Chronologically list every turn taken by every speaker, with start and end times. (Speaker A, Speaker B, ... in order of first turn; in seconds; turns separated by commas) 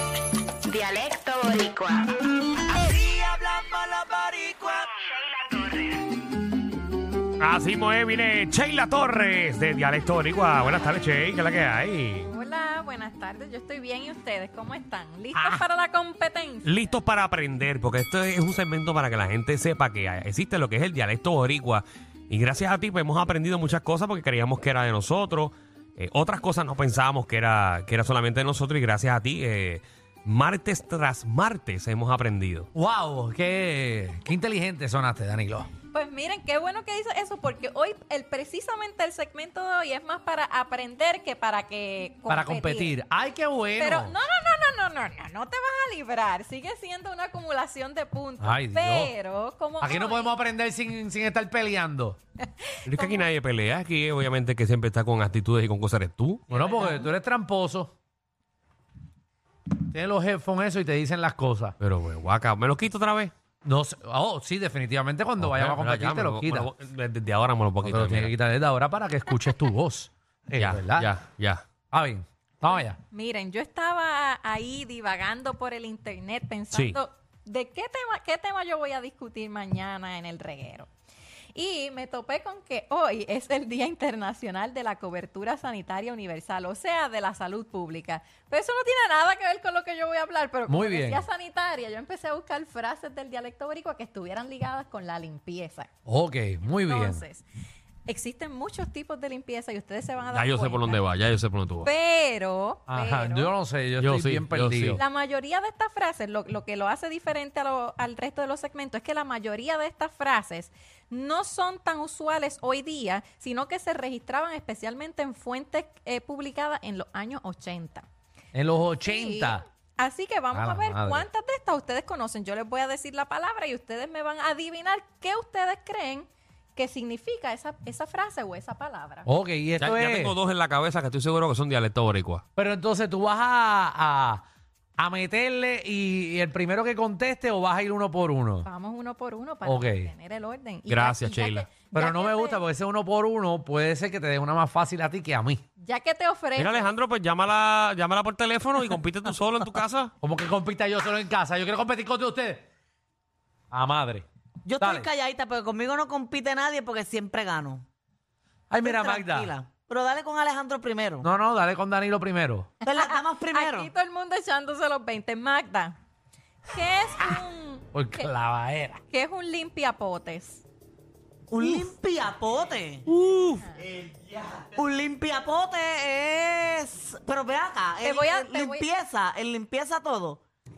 Speaker A: 0.7-2.0, Speaker B: 2.7-4.9, Speaker A: 5.2-5.9, Speaker C: 7.4-12.3, Speaker D: 12.2-16.9, Speaker E: 15.3-15.6, Speaker C: 16.6-32.7, Speaker E: 32.8-35.7, Speaker D: 35.9-42.9, Speaker E: 42.3-44.2, Speaker D: 43.8-50.3, Speaker E: 48.4-49.1, Speaker E: 49.8-52.2, Speaker D: 52.6-53.3, Speaker C: 52.9-56.5, Speaker E: 56.5-57.9, Speaker D: 56.5-57.1, Speaker E: 59.8-61.8, Speaker C: 61.8-63.3, Speaker E: 63.6-66.7, Speaker C: 65.4-68.3, Speaker E: 67.8-71.1, Speaker C: 70.6-71.6, Speaker E: 71.9-73.0, Speaker D: 73.1-80.9, Speaker C: 76.7-77.0, Speaker D: 81.5-95.9, Speaker E: 90.7-91.2, Speaker E: 96.1-97.2, Speaker D: 96.7-97.4, Speaker D: 98.1-101.0, Speaker C: 100.3-101.9, Speaker D: 101.8-103.5, Speaker E: 102.9-105.0, Speaker C: 104.0-105.0, Speaker D: 104.9-118.0, Speaker E: 118.5-119.6, Speaker D: 119.0-129.3, Speaker E: 120.5-121.2, Speaker E: 129.2-130.4, Speaker C: 129.8-132.4, Speaker E: 132.6-134.4, Speaker E: 135.0-138.7, Speaker D: 138.7-142.6, Speaker E: 139.7-140.1, Speaker C: 140.9-141.7, Speaker E: 141.9-145.6, Speaker D: 145.8-146.9, Speaker C: 146.6-150.1, Speaker E: 150.2-152.7, Speaker E: 153.7-154.2, Speaker B: 154.7-157.8, Speaker E: 154.8-155.1, Speaker E: 158.7-159.5, Speaker B: 158.8-161.3, Speaker E: 161.2-162.7, Speaker D: 162.8-166.0, Speaker B: 162.8-163.9, Speaker D: 166.7-168.2, Speaker E: 167.9-169.0, Speaker D: 169.1-170.6, Speaker B: 171.5-173.0, Speaker C: 173.1-173.5, Speaker B: 174.7-180.4, Speaker D: 178.0-178.8